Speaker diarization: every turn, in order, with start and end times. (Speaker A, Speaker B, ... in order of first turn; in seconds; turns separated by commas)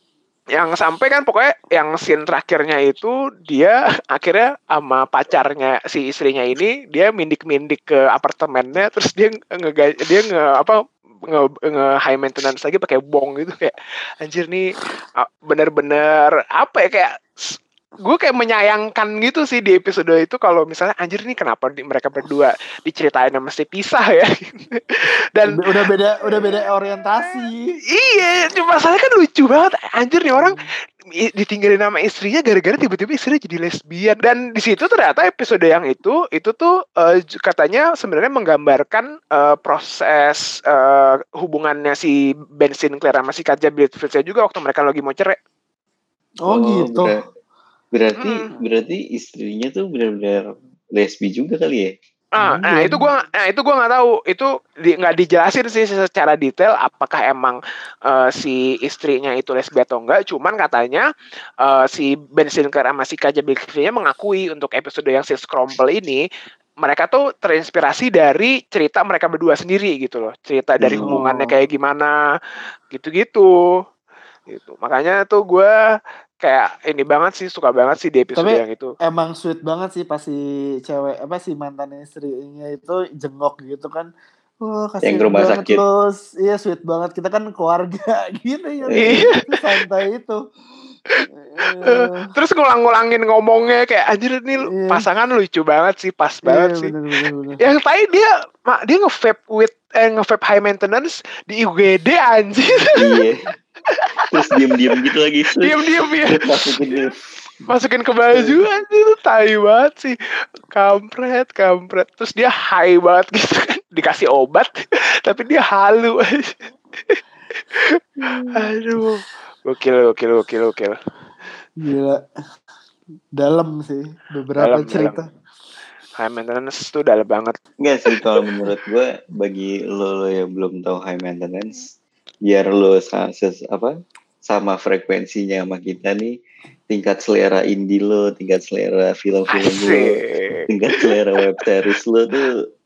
Speaker A: 0.6-25.6, Speaker B: 25.4-27.8, Speaker A: 27.9-30.6, Speaker B: 30.4-30.6, Speaker A: 31.2-45.4, Speaker B: 46.4-47.2, Speaker C: 46.5-47.2, Speaker C: 47.9-51.9, Speaker A: 48.2-48.5, Speaker A: 52.4-61.1, Speaker B: 52.4-53.1, Speaker A: 61.6-66.2, Speaker A: 66.8-72.2, Speaker C: 70.8-71.2, Speaker B: 70.8-71.5, Speaker A: 72.9-73.5, Speaker A: 74.5-75.8, Speaker A: 76.4-79.0, Speaker B: 78.4-84.1, Speaker B: 84.6-90.4, Speaker C: 85.0-85.8, Speaker C: 88.9-89.4, Speaker A: 89.0-89.6, Speaker A: 91.2-96.9, Speaker B: 91.4-92.2, Speaker B: 94.7-95.0, Speaker B: 96.5-97.6, Speaker A: 97.6-103.0, Speaker C: 103.0-103.4, Speaker A: 104.0-104.5, Speaker C: 104.3-107.1, Speaker A: 105.6-106.8, Speaker A: 107.7-110.2, Speaker A: 110.7-114.7, Speaker A: 115.2-116.6, Speaker A: 117.7-118.0, Speaker A: 118.5-121.0, Speaker B: 121.8-122.2, Speaker B: 123.3-125.2, Speaker A: 124.6-125.2, Speaker A: 126.2-127.6, Speaker C: 127.8-131.9, Speaker C: 132.5-133.9, Speaker C: 134.5-136.4, Speaker C: 136.9-140.2, Speaker A: 139.5-141.1, Speaker C: 140.7-142.6